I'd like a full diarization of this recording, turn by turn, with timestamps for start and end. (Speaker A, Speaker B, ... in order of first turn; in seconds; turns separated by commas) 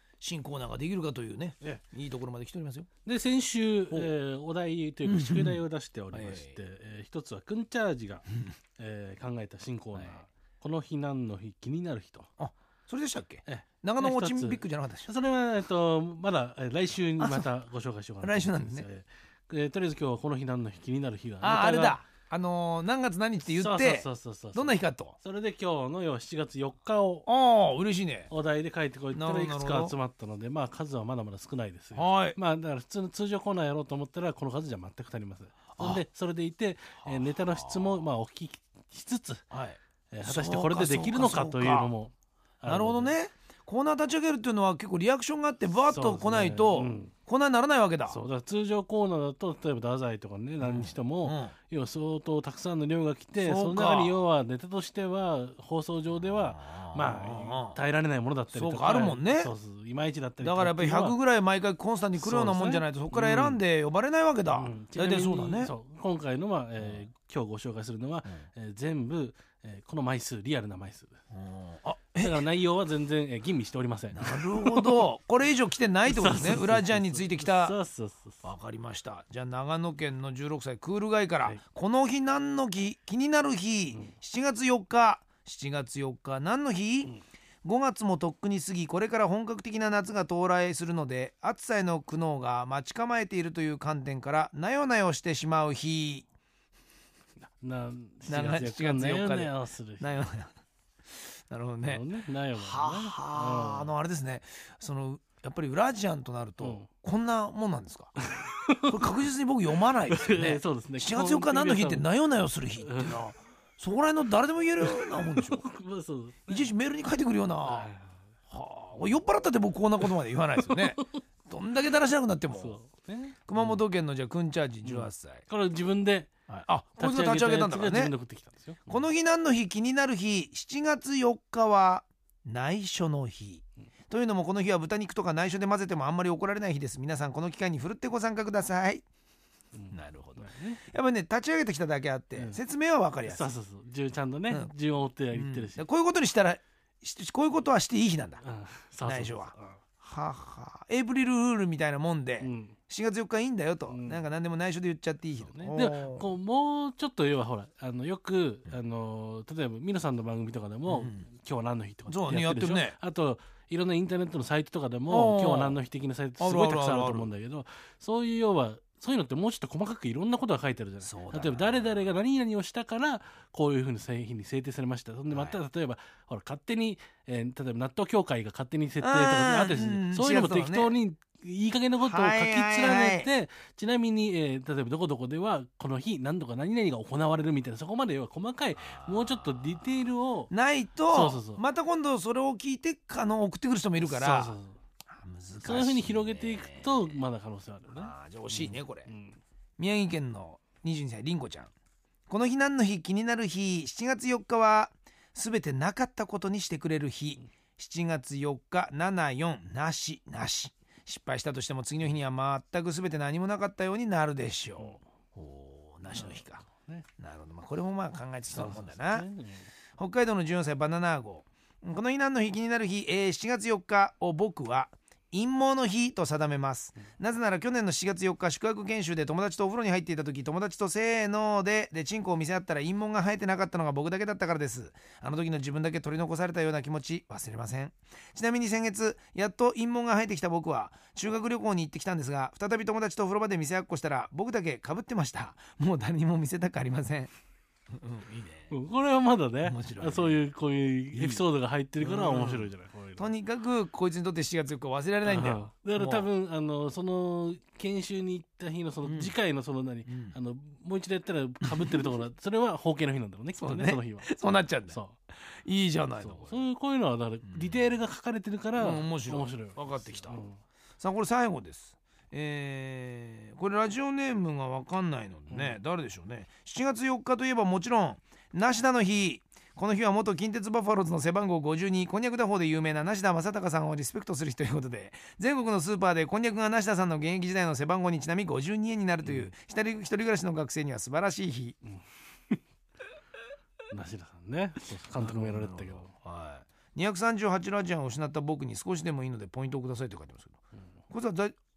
Speaker A: 0.2-2.9, Speaker B: 3.0-8.2, Speaker A: 5.0-5.6, Speaker A: 6.1-6.6, Speaker B: 8.8-12.3, Speaker A: 12.4-15.1, Speaker B: 13.4-22.0, Speaker A: 17.2-17.5, Speaker A: 18.2-18.9, Speaker A: 21.4-25.2, Speaker B: 23.4-27.2, Speaker A: 27.2-28.3, Speaker B: 28.3-39.4, Speaker A: 29.1-29.9, Speaker A: 31.9-32.4, Speaker A: 35.8-36.0, Speaker A: 37.0-38.0, Speaker A: 39.5-41.9, Speaker B: 40.1-43.1, Speaker A: 42.6-48.2, Speaker B: 45.9-47.1, Speaker B: 48.1-61.1, Speaker A: 50.6-51.5, Speaker A: 53.4-54.2, Speaker A: 56.2-57.8, Speaker A: 58.5-59.5, Speaker A: 60.4-65.7, Speaker B: 62.2-63.6, Speaker B: 64.5-71.2, Speaker A: 71.3-72.4, Speaker B: 72.2-75.0, Speaker A: 74.2-77.8, Speaker B: 76.1-78.4, Speaker A: 78.4-96.3, Speaker B: 97.4-100.0, Speaker A: 98.3-100.5, Speaker A: 101.3-102.0, Speaker B: 101.8-103.9, Speaker A: 102.5-108.2, Speaker B: 106.6-106.9, Speaker B: 108.2-109.1, Speaker A: 108.9-115.6, Speaker B: 110.1-112.1, Speaker B: 112.8-113.3, Speaker B: 114.8-116.7, Speaker A: 116.5-117.9, Speaker B: 117.7-118.2, Speaker A: 118.5-122.8, Speaker B: 120.6-121.0, Speaker B: 122.5-123.8, Speaker A: 123.5-125.4, Speaker B: 124.8-126.3, Speaker A: 126.5-128.1, Speaker B: 127.0-129.0, Speaker A: 128.9-139.1, Speaker B: 139.8-140.8, Speaker A: 139.9-143.5, Speaker B: 143.2-145.8, Speaker A: 145.3-148.4, Speaker B: 148.4-149.8, Speaker A: 149.1-156.3, Speaker B: 152.4-152.8, Speaker B: 153.9-154.2, Speaker B: 155.4-190.5, Speaker A: 160.9-161.3, Speaker A: 162.1-163.0, Speaker A: 165.1-165.8, Speaker A: 166.4-167.3, Speaker A: 171.0-171.9, Speaker A: 175.3-175.6, Speaker A: 179.0-180.9, Speaker A: 182.0-183.3, Speaker A: 189.0-189.4, Speaker A: 190.5-194.5, Speaker B: 191.1-191.6, Speaker B: 194.0-194.8, Speaker A: 195.1-197.2, Speaker B: 195.6-199.4, Speaker A: 197.9-199.1, Speaker A: 199.8-201.7, Speaker A: 202.3-216.6, Speaker B: 216.1-217.1, Speaker A: 217.2-219.2, Speaker B: 218.5-219.7, Speaker A: 220.0-247.3, Speaker A: 247.9-248.7, Speaker B: 248.7-253.3, Speaker A: 249.6-250.4, Speaker A: 251.1-251.4, Speaker A: 252.0-256.3, Speaker B: 255.2-264.3, Speaker A: 259.0-259.3, Speaker A: 260.1-260.3, Speaker A: 261.6-262.1, Speaker A: 263.5-266.6, Speaker B: 264.9-265.1, Speaker B: 266.2-270.6, Speaker A: 267.4-267.9, Speaker A: 268.8-270.4, Speaker A: 271.0-291.8, Speaker B: 275.5-275.8, Speaker B: 289.2-289.5, Speaker B: 291.9-292.6, Speaker B: 293.9-296.1, Speaker A: 295.1-300.6, Speaker A: 301.1-301.5